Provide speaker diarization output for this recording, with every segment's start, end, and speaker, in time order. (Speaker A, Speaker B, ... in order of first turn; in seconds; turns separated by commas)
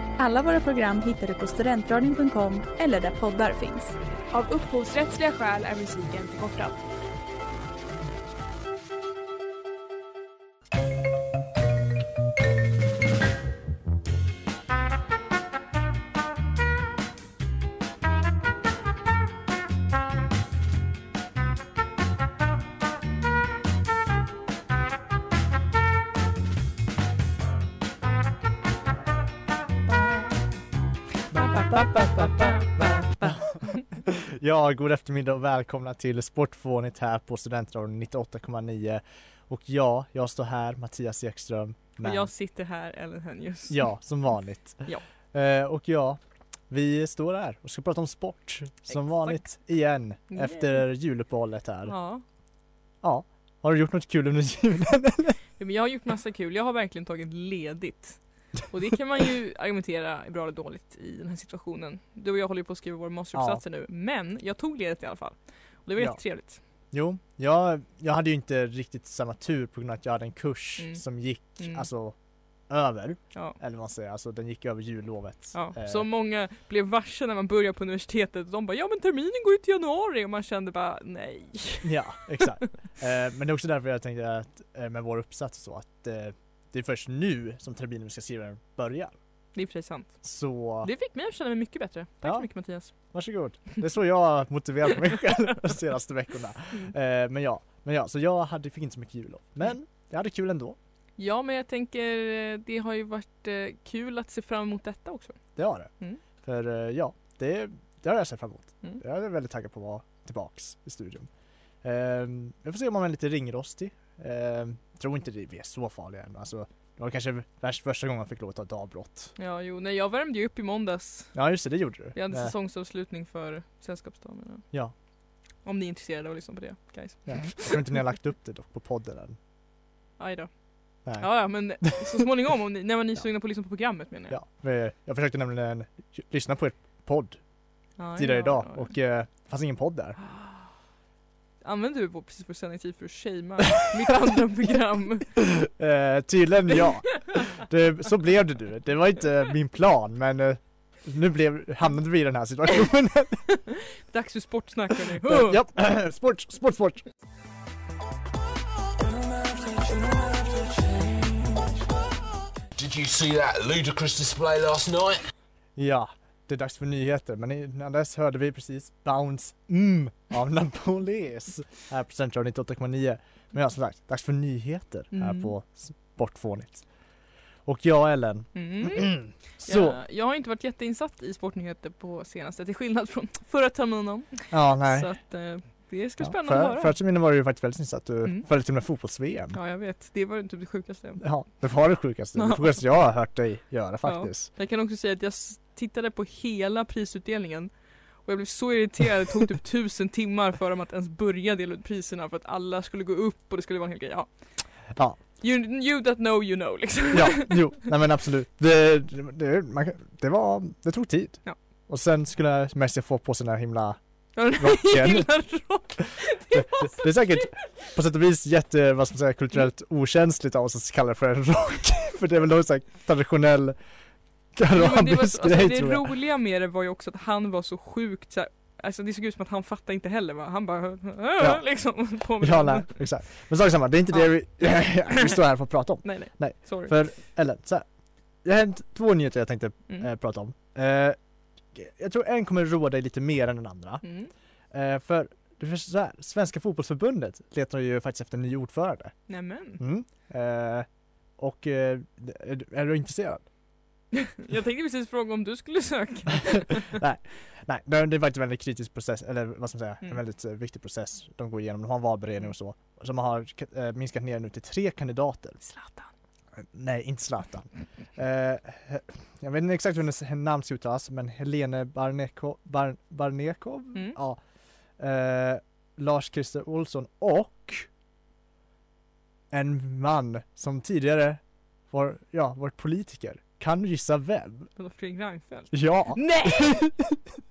Speaker A: 0.2-4.0, Speaker B: 4.3-6.8, Speaker C: 31.3-42.3, Speaker D: 32.6-33.4, Speaker D: 42.0-43.9, Speaker C: 43.7-52.0, Speaker D: 44.7-45.0, Speaker D: 48.9-49.7, Speaker D: 50.3-50.9, Speaker D: 51.8-52.2, Speaker C: 53.0-55.4, Speaker D: 55.6-66.6, Speaker C: 63.3-63.6, Speaker C: 66.0-76.1, Speaker D: 70.8-71.9, Speaker D: 75.5-82.0, Speaker C: 81.8-89.2, Speaker D: 89.5-93.1, Speaker C: 90.2-90.9, Speaker C: 92.2-100.8, Speaker D: 101.2-106.2, Speaker C: 105.5-111.3, Speaker C: 111.8-119.3, Speaker D: 119.3-121.5, Speaker C: 121.3-122.5, Speaker D: 122.1-127.8, Speaker C: 127.2-129.4, Speaker D: 130.2-134.4, Speaker C: 131.0-131.9, Speaker C: 134.3-140.2, Speaker D: 137.9-138.9, Speaker D: 140.2-140.7, Speaker D: 141.6-145.5, Speaker C: 145.4-153.6, Speaker D: 154.1-155.6, Speaker C: 155.1-157.0, Speaker E: 162.8-165.2, Speaker C: 165.8-177.1, Speaker D: 175.1-175.5, Speaker C: 177.6-180.0, Speaker D: 178.5-187.0, Speaker C: 184.5-185.3, Speaker C: 186.2-189.6, Speaker D: 189.5-191.5, Speaker C: 191.2-194.5, Speaker D: 192.3-193.1, Speaker D: 194.0-207.7, Speaker C: 204.9-205.2, Speaker C: 207.1-215.9, Speaker D: 214.3-217.5, Speaker C: 216.5-223.8, Speaker C: 224.5-226.1, Speaker D: 224.7-233.1, Speaker C: 231.4-241.2, Speaker D: 234.1-235.3, Speaker D: 236.0-236.9, Speaker C: 241.7-253.5, Speaker D: 244.0-244.3, Speaker D: 249.3-249.8, Speaker D: 254.4-257.0, Speaker C: 256.9-265.6, Speaker D: 265.6-266.1, Speaker C: 266.5-274.4, Speaker C: 274.9-277.9, Speaker C: 279.5-284.7, Speaker D: 284.8-286.9, Speaker C: 285.7-287.2